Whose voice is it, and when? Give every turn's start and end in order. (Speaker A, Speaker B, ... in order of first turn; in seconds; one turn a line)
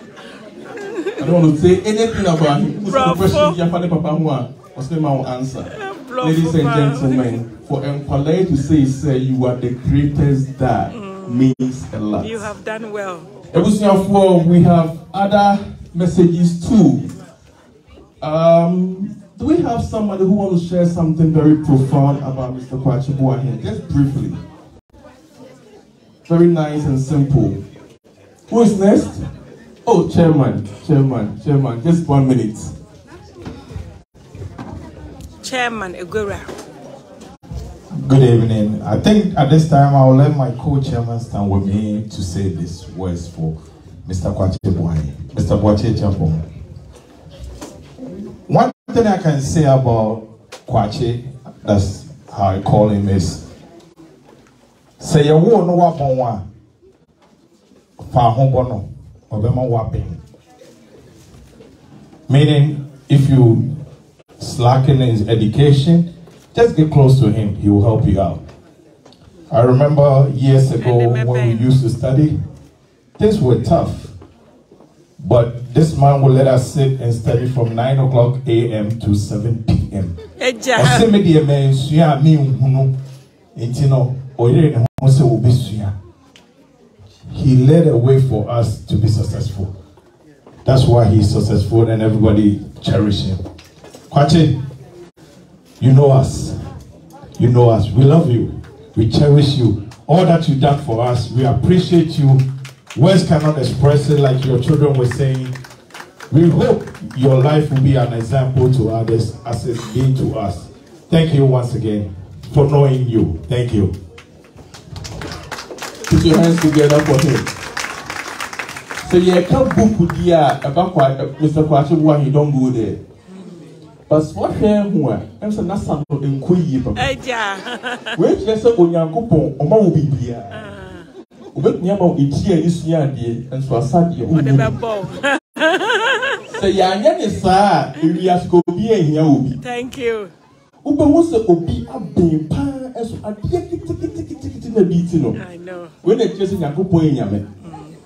Speaker A: 0.8-1.4
Speaker B: 1.2-12.5
Speaker A: 2.9-3.6
Speaker A: 5.7-7.3
Speaker A: 10.9-11.5
Speaker A: 12.2-13.3
Speaker B: 13.5-17.1
Speaker B: 18.2-24.4
Speaker B: 26.3-27.6
Speaker B: 28.5-29.2
Speaker B: 29.8-32.7
Speaker A: 35.4-36.5
Speaker C: 37.9-46.4
Speaker C: 48.5-53.4
Speaker C: 55.0-56.4
Speaker C: 58.0-60.2
Speaker C: 62.3-63.7
Speaker C: 64.4-68.4
Speaker C: 69.5-72.3
Speaker A: 70.8-71.7
Speaker C: 73.2-74.1
Speaker C: 75.2-80.2
Speaker A: 80.4-81.1
Speaker C: 80.7-83.0
Speaker C: 83.5-85.9
Speaker C: 87.3-89.7
Speaker C: 90.6-93.4
Speaker C: 94.1-94.6
Speaker C: 95.8-96.6
Speaker C: 97.4-102.4
Speaker C: 102.9-105.5
Speaker C: 106.3-113.9
Speaker B: 116.1-117.5
Speaker B: 119.0-123.0
Speaker B: 124.1-127.0
Speaker A: 127.0-128.2
Speaker B: 128.2-130.6
Speaker A: 130.5-131.1
Speaker B: 131.5-134.8
Speaker A: 134.3-136.4
Speaker B: 136.5-139.6
Speaker A: 139.6-140.3
Speaker B: 140.8-145.4
Speaker A: 145.4-145.9
Speaker B: 146.0-147.4
Speaker A: 147.6-147.9